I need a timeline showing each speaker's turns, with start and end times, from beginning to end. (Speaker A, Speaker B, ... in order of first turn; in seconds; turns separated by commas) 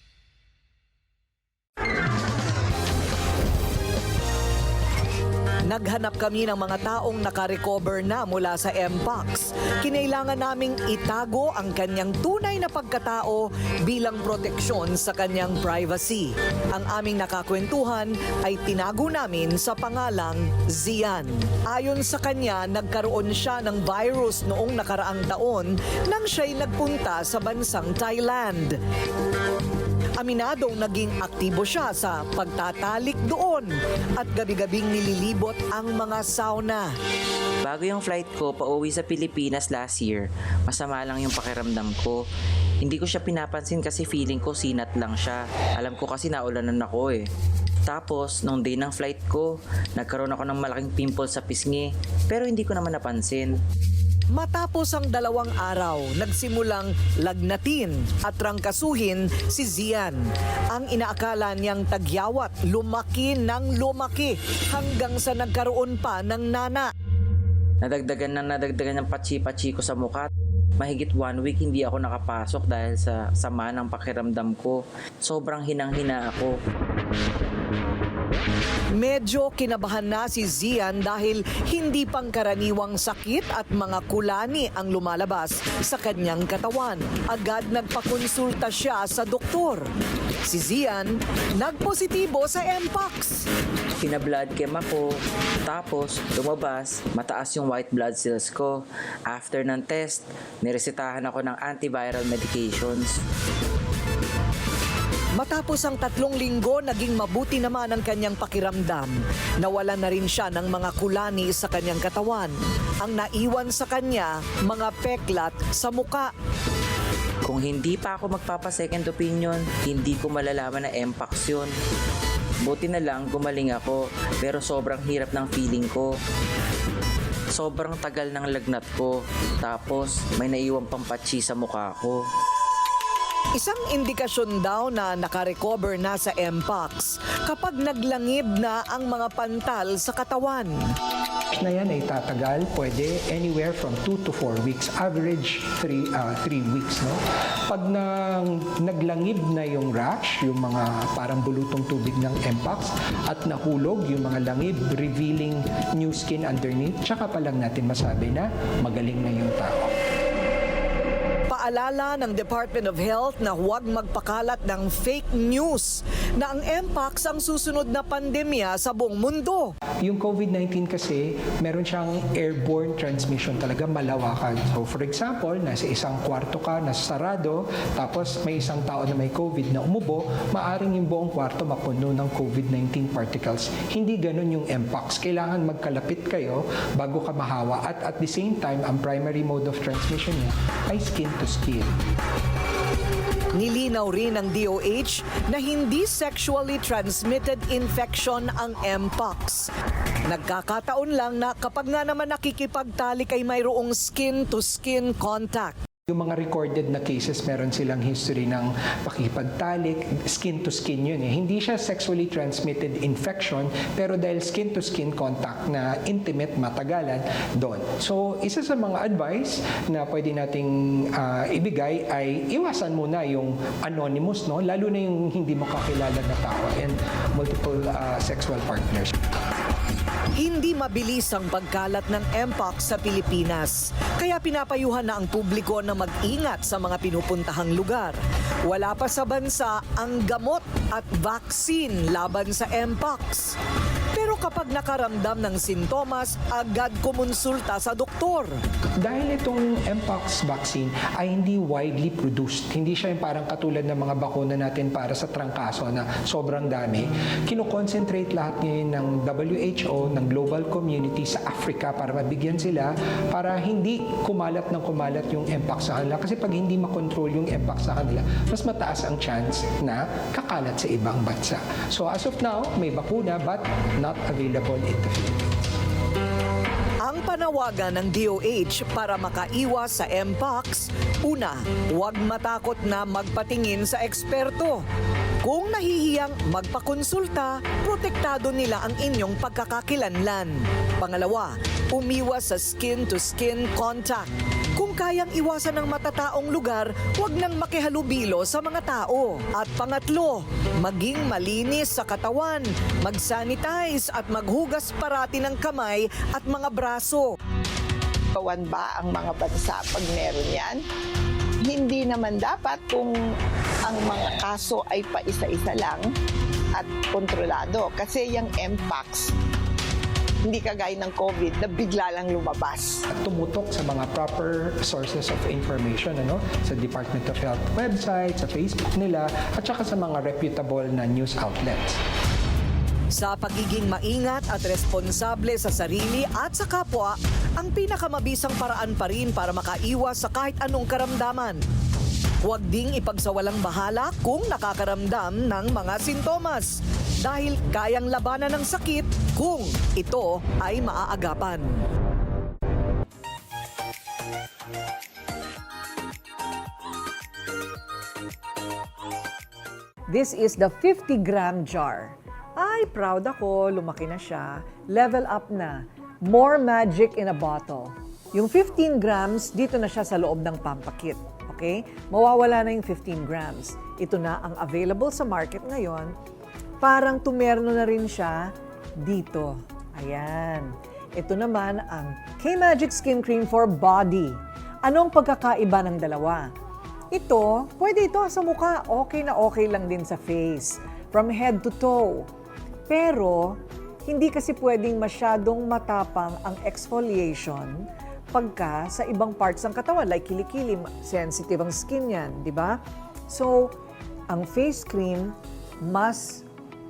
Speaker A: 5.7-28.8, Speaker A: 30.2-36.9, Speaker B: 37.6-42.2, Speaker B: 42.8-47.3, Speaker B: 47.9-53.5, Speaker A: 54.3-66.9, Speaker B: 67.8-76.5, Speaker A: 79.0-89.9, Speaker A: 90.5-93.5, Speaker B: 94.0-103.2, Speaker A: 105.4-116.3, Speaker B: 117.5-121.7, Speaker B: 122.6-126.1, Speaker B: 127.5-132.2, Speaker A: 133.6-140.8, Speaker C: 141.6-159.9, Speaker A: 161.5-169.7, Speaker C: 170.0-191.9, Speaker A: 193.6-199.7, Speaker A: 200.3-205.8, Speaker C: 206.1-229.1, Speaker A: 230.4-243.6, Speaker A: 244.1-248.6, Speaker C: 249.0-275.5, Speaker A: 277.0-284.9, Speaker A: 285.4-307.3, Speaker D: 308.4-310.8, Speaker D: 311.6-313.2, Speaker D: 313.9-316.1, Speaker D: 316.8-319.3, Speaker D: 320.4-323.0, Speaker C: 323.1-332.0, Speaker A: 333.1-341.6, Speaker A: 342.4-351.8, Speaker A: 360.1-376.1, Speaker A: 376.8-378.5, Speaker A: 379.0-386.5, Speaker A: 387.1-392.2, Speaker A: 392.9-402.8, Speaker A: 403.3-403.7, Speaker A: 404.3-406.4